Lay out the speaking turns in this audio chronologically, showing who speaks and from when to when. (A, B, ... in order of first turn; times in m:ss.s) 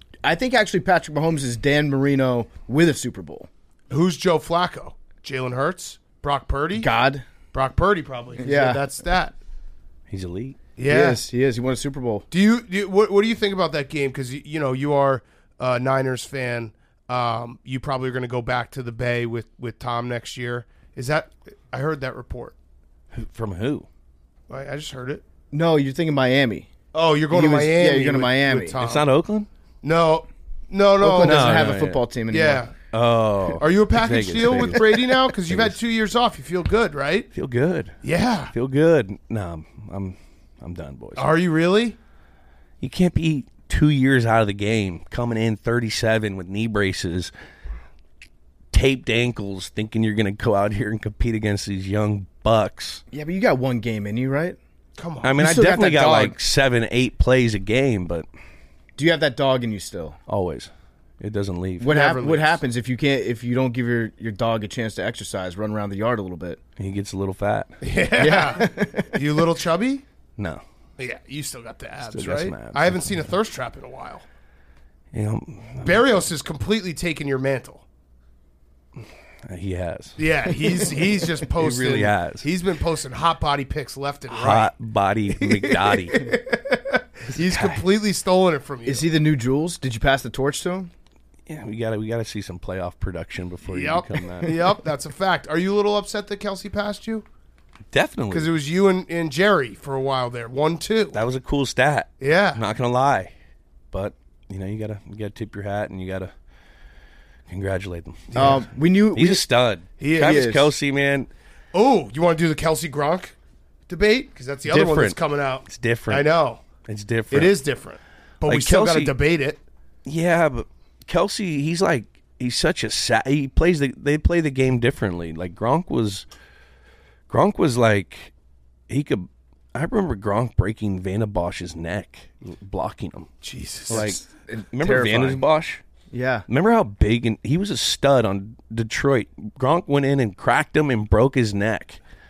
0:00.2-0:03.5 A
0:03.9-0:06.9 B
0:06.7-0:07.2 A
0:07.5-0:09.3 B
0:08.4-0:08.9 A
0:10.1-0:10.6 C
0:10.8-0:11.2 B
0:10.8-0:12.2 A
0:12.3-0:22.5 B
0:23.1-0:23.9 C
0:24.5-0:25.2 B
0:25.5-0:26.7 A
0:26.9-0:29.1 B
0:27.3-0:28.8 A
0:28.7-0:29.5 C
0:29.8-0:31.7 B
0:31.0-0:32.6 A
0:31.2-0:32.0 C
0:32.3-0:32.7 B
0:32.8-0:35.8 C
0:33.6-0:37.3 B
0:37.3-0:38.0 C
0:38.0-0:38.5 B
0:38.5-0:41.3 C
0:41.2-0:42.0 B
0:42.8-0:47.3 C
0:48.7-0:53.0 C
0:53.1-0:54.6 A
0:55.0-0:55.3 B
0:55.2-0:58.3 C
0:55.3-0:56.4 A
0:59.0-1:00.2 A
1:00.3-1:01.9 C
1:01.8-1:06.6 A
1:01.8-1:02.6 B
1:06.8-1:07.8 C
1:07.8-1:10.0 B
1:08.2-1:09.2 A
1:11.0-1:14.2 B
1:12.0-1:13.2 C
1:15.1-1:16.0 C
1:15.8-1:17.8 B
1:19.4-1:20.2 C
1:20.2-1:24.7 B
1:21.5-1:22.5 C
1:24.3-1:26.3 C
1:25.3-1:29.1 B
1:27.3-1:27.8 C
1:28.8-1:30.9 A
1:31.5-1:34.7 C
1:33.6-1:37.2 B
1:37.9-1:38.5 C
1:38.3-1:41.2 B
1:41.1-1:43.3 C
1:42.2-1:42.6 B
1:43.9-1:46.3 C
1:47.5-1:48.6 C
1:48.3-1:48.6 B
1:48.3-1:49.4 A
1:49.1-1:51.3 C
1:50.0-1:50.4 B
1:50.2-1:50.7 A
1:51.7-1:53.3 B
1:53.9-1:56.6 B
1:54.6-1:56.3 C
1:56.8-1:57.6 C
1:57.3-1:59.6 B
1:58.4-1:59.2 C
2:00.0-2:06.2 C
2:07.3-2:08.3 C
2:08.9-2:13.3 C
2:13.4-2:14.1 B
2:13.9-2:14.2 C
2:13.9-2:15.4 A
2:14.7-2:15.8 C
2:16.1-2:16.4 A
2:16.5-2:22.0 C